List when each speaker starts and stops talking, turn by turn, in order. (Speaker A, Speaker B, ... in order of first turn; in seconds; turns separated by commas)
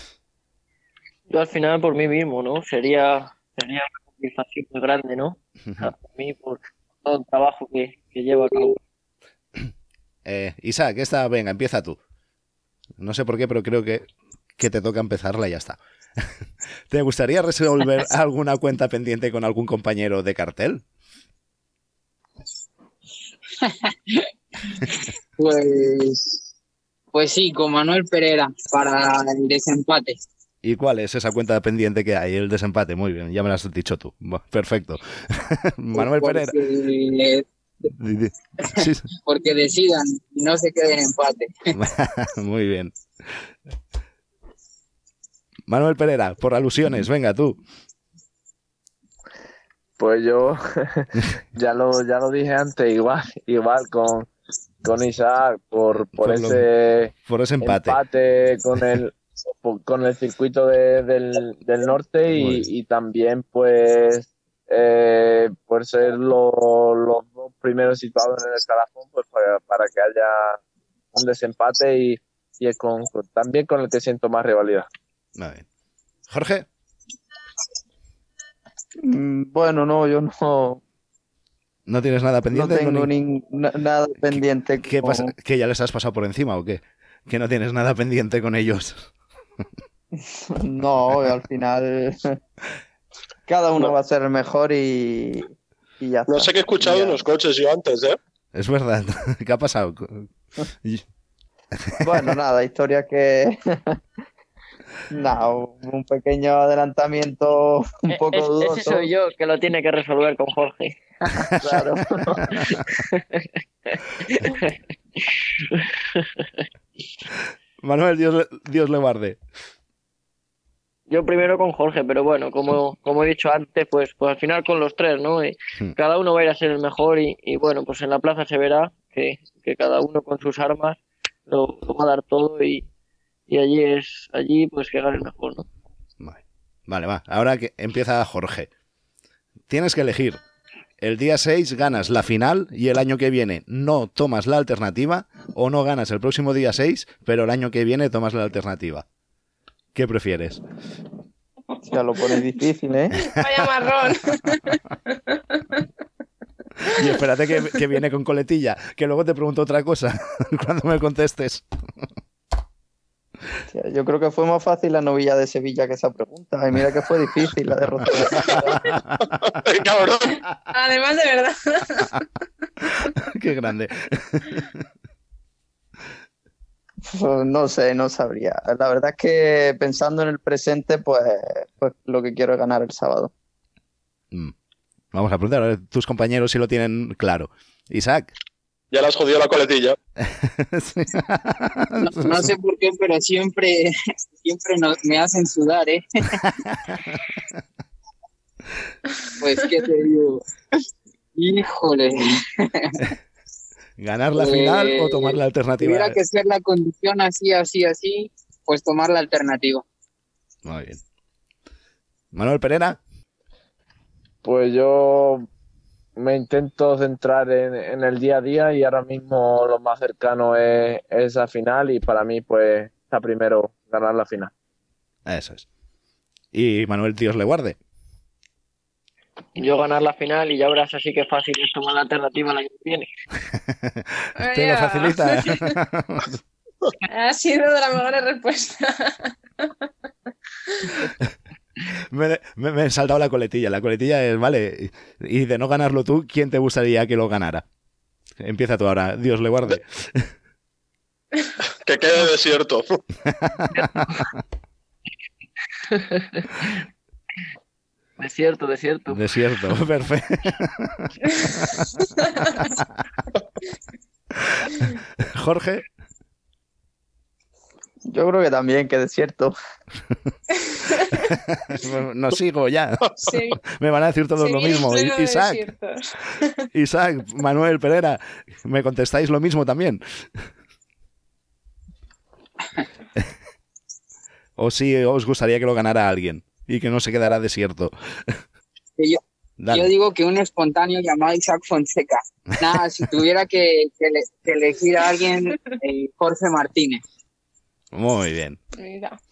Speaker A: 1.3-8.8, Speaker B: 10.2-12.0, Speaker B: 13.0-16.2, Speaker B: 16.9-20.8, Speaker C: 23.6-24.3, Speaker C: 25.4-26.4, Speaker C: 27.1-30.2, Speaker B: 30.6-36.6, Speaker C: 35.9-37.5, Speaker B: 37.9-39.1, Speaker C: 38.7-41.7, Speaker B: 41.7-42.9, Speaker B: 45.7-47.6, Speaker D: 50.0-54.3, Speaker D: 54.8-70.6, Speaker B: 56.1-56.6, Speaker B: 57.2-58.0, Speaker B: 62.3-62.6, Speaker D: 71.1-74.9, Speaker B: 75.3-75.7, Speaker B: 76.3-76.7, Speaker E: 79.0-80.8, Speaker B: 81.9-83.1, Speaker E: 82.5-85.3, Speaker B: 84.8-89.1, Speaker E: 90.6-92.2, Speaker E: 93.5-97.2, Speaker F: 96.3-98.2, Speaker B: 98.5-100.3, Speaker E: 102.0-103.9, Speaker E: 105.1-109.1, Speaker A: 108.1-111.5, Speaker E: 111.6-112.6, Speaker A: 113.4-114.7, Speaker B: 117.8-119.4, Speaker A: 121.1-132.9, Speaker A: 133.5-135.6, Speaker B: 136.2-138.7, Speaker B: 139.7-140.4, Speaker B: 141.0-149.0, Speaker B: 149.9-150.6, Speaker E: 151.8-153.1, Speaker G: 153.2-155.8, Speaker B: 156.9-161.6, Speaker E: 163.7-168.8, Speaker B: 168.5-169.3, Speaker F: 169.4-170.3, Speaker G: 170.7-172.2, Speaker B: 173.2-174.8, Speaker E: 177.1-183.3, Speaker B: 185.1-188.3, Speaker F: 188.9-189.9, Speaker B: 190.2-192.5, Speaker C: 192.0-196.4, Speaker B: 196.4-197.0, Speaker C: 199.4-200.4, Speaker C: 201.3-203.0, Speaker B: 204.0-206.2, Speaker C: 204.3-209.8, Speaker B: 210.6-211.0, Speaker B: 212.3-213.0, Speaker D: 214.4-215.4, Speaker D: 216.2-224.5, Speaker B: 225.2-225.7, Speaker B: 226.5-227.8, Speaker A: 229.6-233.1, Speaker B: 233.7-236.4, Speaker G: 234.4-235.7, Speaker G: 237.1-239.7, Speaker G: 240.7-241.1, Speaker B: 242.1-247.6, Speaker B: 248.4-250.3, Speaker F: 251.8-252.9, Speaker B: 253.3-254.1, Speaker A: 255.9-256.7, Speaker A: 258.2-259.2, Speaker B: 259.1-261.8, Speaker B: 264.4-264.7, Speaker B: 265.2-265.9, Speaker E: 268.1-269.5, Speaker G: 270.7-271.2, Speaker B: 271.2-273.0, Speaker G: 273.2-273.6, Speaker B: 273.6-275.7, Speaker G: 274.4-276.7, Speaker B: 276.7-280.0, Speaker B: 284.6-288.4, Speaker C: 289.0-297.0, Speaker B: 289.6-289.9, Speaker B: 297.9-298.6, Speaker G: 298.8-299.1